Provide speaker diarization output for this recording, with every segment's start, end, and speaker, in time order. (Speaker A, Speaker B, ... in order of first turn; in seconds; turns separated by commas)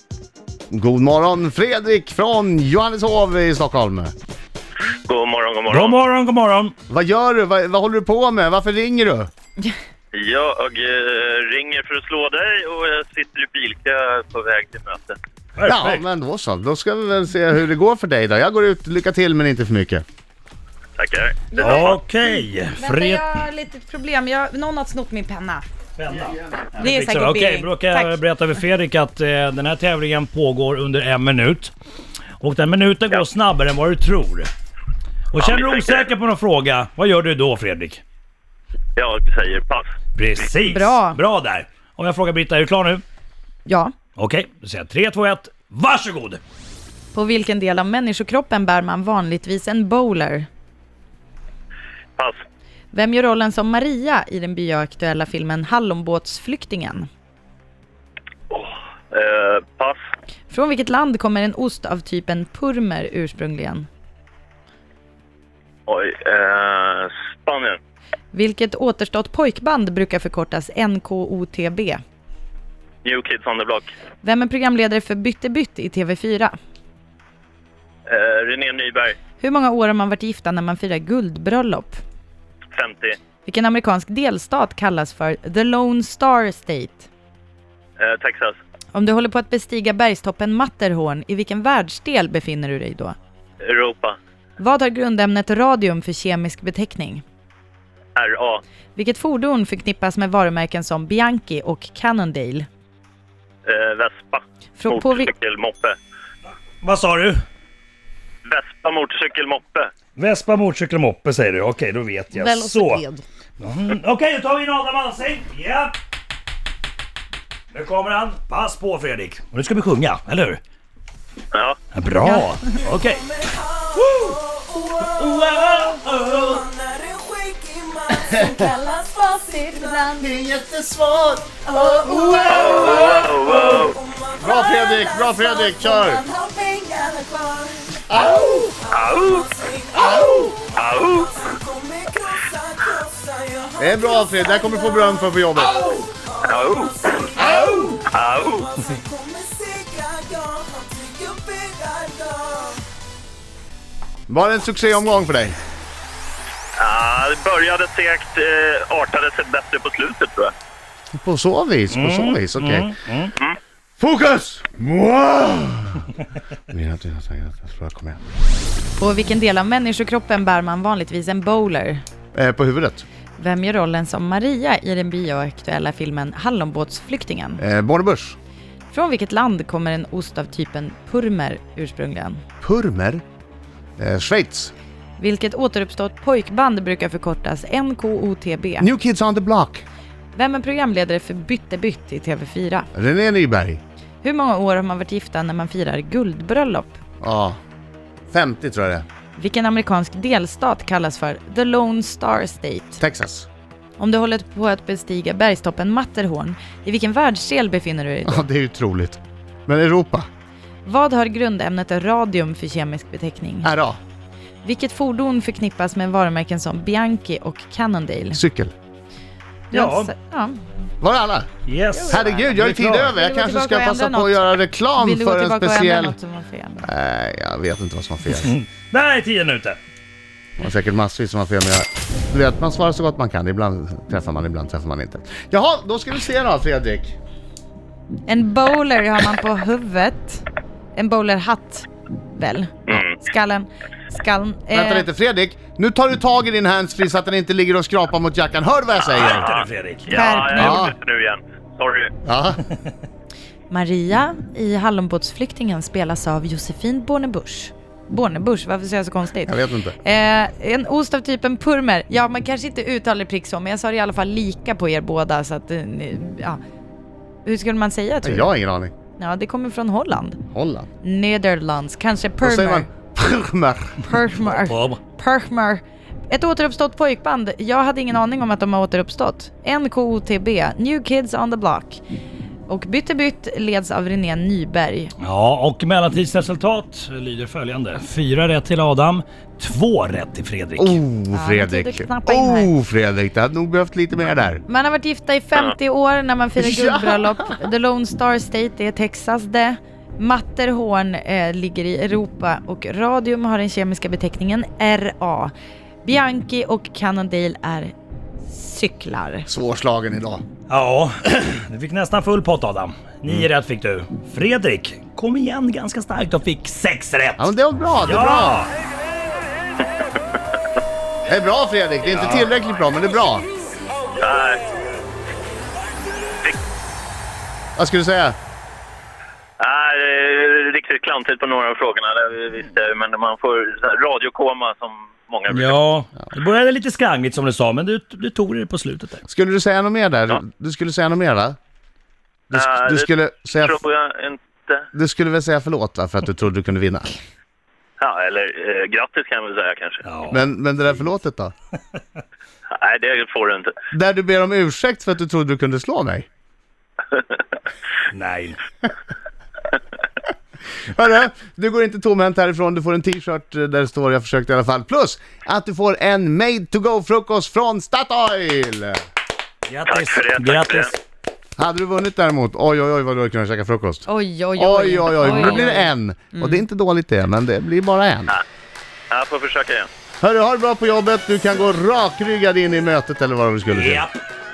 Speaker A: 0.7-4.1, Speaker B: 5.0-6.0, Speaker C: 5.7-6.7, Speaker A: 6.9-9.3, Speaker B: 10.1-15.2, Speaker C: 15.6-16.0, Speaker A: 15.7-20.0, Speaker B: 21.0-21.9, Speaker D: 21.5-21.9, Speaker C: 21.6-23.3, Speaker D: 22.8-25.6, Speaker C: 26.0-31.7, Speaker D: 26.8-28.2, Speaker C: 32.4-34.5, Speaker C: 35.3-38.0, Speaker B: 35.4-36.1, Speaker B: 39.0-39.9, Speaker C: 40.1-43.0, Speaker D: 40.6-41.2, Speaker D: 43.6-43.9, Speaker C: 44.2-46.4, Speaker D: 47.1-50.5, Speaker D: 52.9-57.1, Speaker B: 58.5-60.0, Speaker D: 60.5-63.9, Speaker B: 65.9-67.8, Speaker D: 68.3-72.0, Speaker B: 73.0-73.9, Speaker D: 74.2-76.5, Speaker B: 78.1-79.2, Speaker D: 79.4-82.0, Speaker B: 82.7-83.2, Speaker D: 83.4-87.1, Speaker B: 88.0-88.6, Speaker D: 88.9-93.2, Speaker B: 93.6-94.2, Speaker D: 94.6-97.2, Speaker B: 98.2-98.6, Speaker D: 98.9-102.7, Speaker B: 103.7-106.0, Speaker D: 104.8-105.3, Speaker C: 106.8-107.4, Speaker B: 108.4-109.9, Speaker C: 110.2-113.0, Speaker D: 112.4-113.2, Speaker C: 113.6-115.9, Speaker C: 117.7-120.6, Speaker C: 121.9-123.3, Speaker D: 122.2-122.5, Speaker C: 124.0-124.4, Speaker E: 124.5-128.3, Speaker C: 125.1-126.7, Speaker D: 128.3-130.3, Speaker A: 130.2-133.8, Speaker D: 131.8-133.0, Speaker B: 132.5-134.0, Speaker A: 134.4-136.2, Speaker D: 136.3-137.5, Speaker E: 136.3-137.8, Speaker A: 138.1-138.8, Speaker B: 138.9-139.5, Speaker E: 139.6-140.5, Speaker A: 140.0-140.6, Speaker B: 140.7-141.5, Speaker E: 141.5-143.8, Speaker A: 143.8-146.0, Speaker B: 146.4-147.4, Speaker A: 147.3-148.1, Speaker B: 148.0-148.8, Speaker E: 148.9-152.8, Speaker A: 154.3-155.6, Speaker B: 156.8-160.5, Speaker A: 161.1-162.9, Speaker C: 161.9-163.3, Speaker A: 164.0-166.1, Speaker A: 166.7-168.2, Speaker D: 169.0-172.0, Speaker A: 172.3-173.0, Speaker D: 173.4-177.6, Speaker A: 177.6-178.4, Speaker D: 178.9-182.4, Speaker A: 182.6-183.2, Speaker A: 184.0-184.7, Speaker D: 185.2-188.9, Speaker A: 188.8-189.8, Speaker D: 190.3-192.9, Speaker A: 192.9-193.8, Speaker D: 194.2-197.0, Speaker A: 197.2-197.6, Speaker A: 198.3-199.0, Speaker D: 199.3-203.0, Speaker A: 203.0-203.5, Speaker D: 204.0-208.4, Speaker A: 208.2-210.3, Speaker D: 210.8-213.7, Speaker A: 213.6-214.0, Speaker D: 214.6-218.4, Speaker A: 218.3-218.7, Speaker D: 219.7-220.6, Speaker C: 219.7-220.1, Speaker A: 221.0-221.5, Speaker C: 221.7-223.1, Speaker D: 221.9-226.8, Speaker A: 222.1-226.2, Speaker A: 226.8-228.5, Speaker C: 228.4-229.8, Speaker A: 230.6-237.1, Speaker D: 238.2-245.1, Speaker A: 244.7-249.5, Speaker B: 249.1-252.1, Speaker C: 249.2-250.2, Speaker D: 250.1-250.9, Speaker A: 250.6-250.9, Speaker A: 252.2-252.6, Speaker D: 253.7-266.6, Speaker A: 259.4-259.9, Speaker D: 267.4-268.5, Speaker A: 268.2-268.9, Speaker D: 269.2-270.4, Speaker A: 270.5-270.9, Speaker D: 271.0-272.9, Speaker A: 272.4-274.1, Speaker D: 274.0-282.0, Speaker C: 274.4-275.0, Speaker D: 282.7-285.1, Speaker C: 285.2-291.0, Speaker A: 290.8-294.6, Speaker D: 291.3-292.7, Speaker D: 294.7-305.5, Speaker A: 296.6-297.6, Speaker D: 306.0-307.9, Speaker D: 308.4-309.5, Speaker A: 309.5-310.4, Speaker C: 310.7-317.5, Speaker A: 317.4-318.7, Speaker C: 318.0-318.7, Speaker A: 321.2-323.4, Speaker B: 324.2-324.6, Speaker A: 327.8-328.4, Speaker B: 329.6-335.8, Speaker C: 335.5-339.2, Speaker A: 339.3-341.6, Speaker A: 342.5-343.8, Speaker B: 342.5-344.9, Speaker A: 344.9-347.1, Speaker B: 348.0-350.0, Speaker C: 350.0-350.4, Speaker A: 350.3-351.5, Speaker B: 352.7-353.7, Speaker A: 353.9-356.3, Speaker B: 357.1-357.4, Speaker C: 358.1-358.6, Speaker A: 360.8-369.0, Speaker C: 369.7-371.0, Speaker B: 369.9-370.9, Speaker A: 371.6-378.3, Speaker D: 374.1-376.6, Speaker B: 379.1-379.9, Speaker A: 380.2-384.0, Speaker C: 383.7-384.1